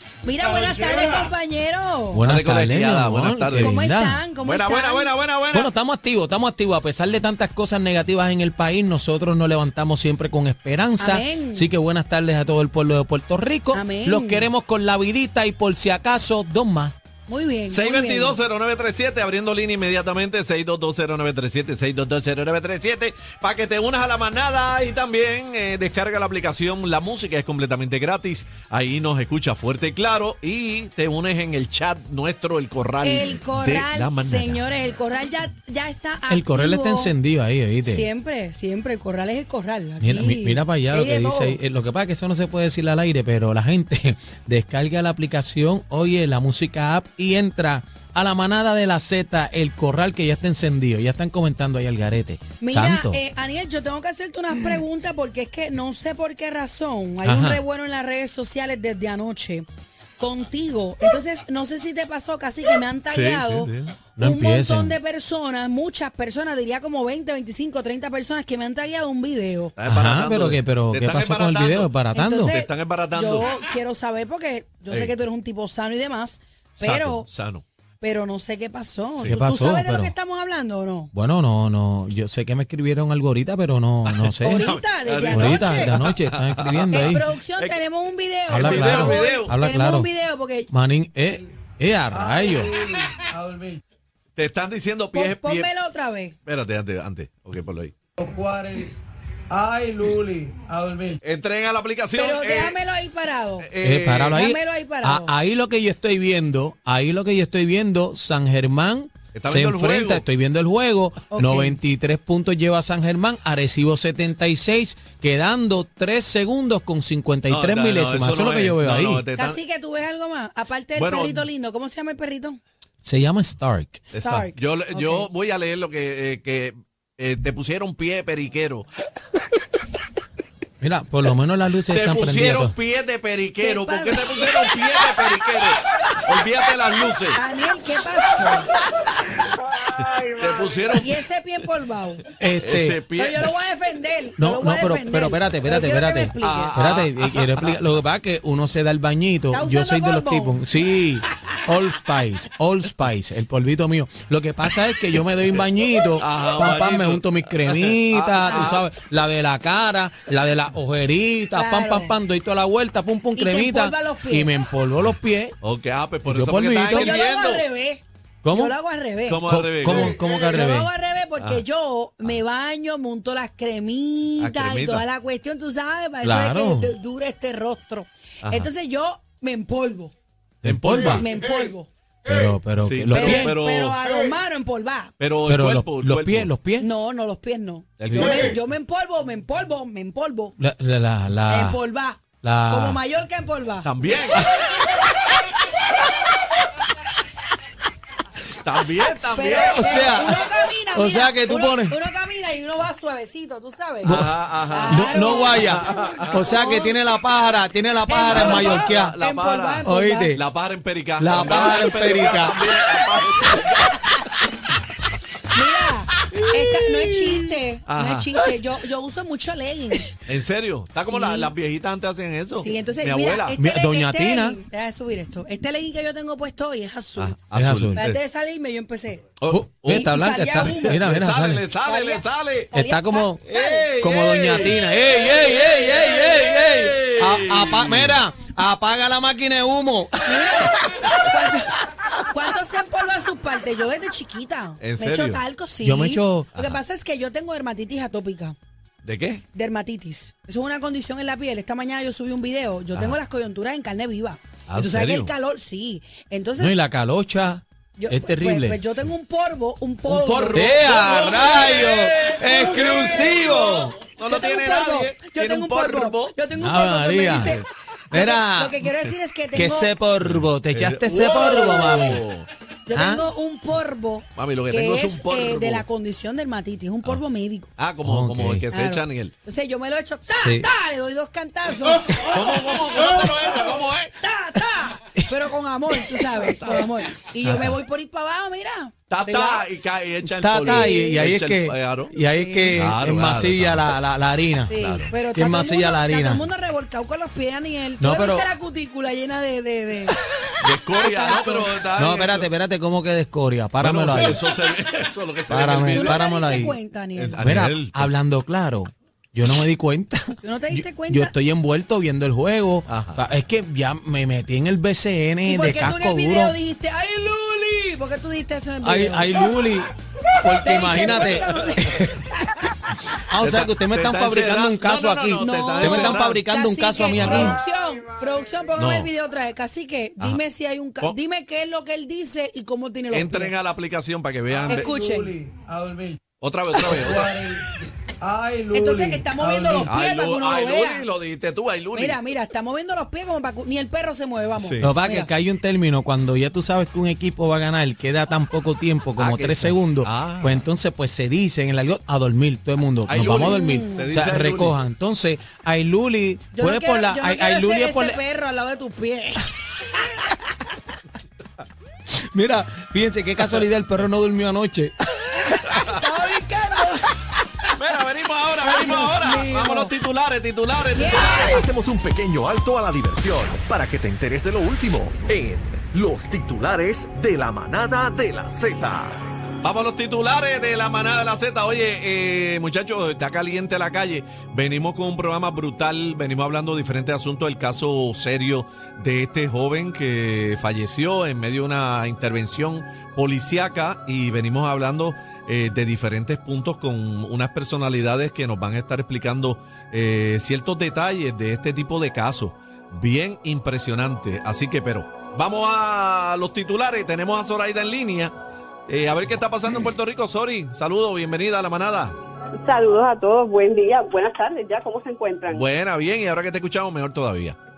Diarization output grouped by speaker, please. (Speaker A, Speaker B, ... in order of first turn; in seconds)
Speaker A: 0.2-2.2, 3.6-5.2, 11.0-11.7, 13.7-14.5, 17.3-18.4, 33.0-37.1, 37.8-41.6, 52.6-59.7, 60.2-69.7, 72.1-77.3, 78.0-81.1, 84.4-86.0, 86.9-90.7, 95.1-96.4, 102.1-103.7, 104.3-105.3, 111.3-111.8, 119.4-122.6, 124.1-125.3, 133.6-134.5, 137.3-138.7, 140.9-142.2, 143.1-146.8, 149.5-150.6, 158.5-158.7, 161.5-162.1, 163.3-164.6, 166.9-180.1, 181.0-181.9, 183.1-185.1, 186.8-190.6, 191.5-194.9, 199.3-204.2, 204.7-206.9, 208.1-210.4, 215.5-220.2, 221.0-221.5, 222.6-227.4, 228.0-229.3, 229.9-231.0, 231.8-233.9, 240.3-248.6, 249.5-256.7, 258.0-261.4, 262.9-263.4, 264.3-269.9, 272.9-277.7, 278.7-282.7, 284.2-289.9, 290.6-291.2, 292.3-292.8, 294.7-300.2, 300.8-301.8, 304.1-304.4, 305.9-307.5, 310.4-311.3, 315.4-319.6, 320.5-322.6, 325.4-333.5, 334.6-335.3, 338.7-341.1, 341.9-345.3, 353.2-354.2, 356.5-360.5, 365.4-367.2, 368.6-369.9, 370.9-371.7
Speaker B: 2.1-4.2, 5.5-16.9, 36.3-38.1, 40.0-53.2, 57.2-57.6, 64.2-65.0, 69.8-72.5, 79.2-80.1, 81.1-84.8, 85.3-87.3, 88.5-90.1, 90.7-92.7, 103.8-119.2, 123.0-124.1, 130.8-132.8, 142.4-143.0, 144.4-165.6, 166.3-167.2, 168.4-168.7, 169.5-170.9, 176.2-176.9, 180.6-181.3, 182.3-183.6, 185.5-186.9, 188.1-188.4, 190.6-191.8, 192.4-193.0, 199.6-202.0, 204.1-204.3, 204.9-209.2, 209.8-210.4, 211.2-213.0, 223.6-224.6, 227.6-228.0, 229.5-231.7, 232.7-241.2, 245.8-246.5, 256.6-259.0, 260.3-264.0, 266.5-268.8, 269.5-272.2, 272.9-273.2, 278.0-278.6, 280.3-280.7, 290.4-294.8, 295.3-296.5, 298.0-298.5, 301.9-304.4, 305.5-306.8, 307.4-316.6, 318.8-319.9, 320.4-322.2, 323.1-327.6, 344.8-358.2, 362.1-364.9
Speaker C: 2.2-3.8, 4.4-5.7, 17.7-34.6, 63.1-64.0, 69.8-73.5, 76.8-77.7, 84.1-87.8, 88.5-89.5, 94.4-95.7, 96.5-97.9, 101.2-102.8, 103.6-104.5, 109.3-110.3, 117.5-119.6, 121.0-121.5, 124.1-128.9, 131.9-137.4, 139.8-141.2, 142.6-143.5, 146.4-147.8, 156.2-158.9, 165.6-167.7, 169.3-170.2, 171.4-171.6, 174.4-175.1, 178.4-178.7, 180.6-181.3, 182.8-184.0, 185.2-186.5, 188.0-188.6, 193.8-194.5, 198.6-200.3, 204.0-206.5, 208.3-214.0, 216.8-217.3, 217.9-218.4, 220.3-223.6, 227.2-228.2, 229.4-232.7, 233.4-238.2, 244.8-245.4, 249.0-249.4, 254.7-255.3, 260.1-266.4, 267.3-267.7, 270.2-272.5, 274.4-275.9, 277.8-279.3, 282.2-284.2, 286.4-286.9, 287.4-287.7, 289.1-292.1, 292.7-293.9, 294.8-295.1, 300.6-302.5, 303.8-308.1, 312.9-313.2, 323.4-326.4, 327.1-327.6, 328.8-329.1, 333.1-334.9, 336.4-337.4, 339.8-342.2, 344.6-344.9, 349.2-350.7, 353.1-354.8, 367.8-371.7, 379.6-408.3, 408.9-412.2, 415.5-417.6
Speaker D: 92.3-93.7, 98.2-98.6, 99.5-101.1, 334.7-336.2, 337.1-337.6, 338.2-339.9
Speaker E: 92.4-92.8, 98.4-98.8, 100.0-101.2, 371.2-379.2
Speaker F: 412.6-415.7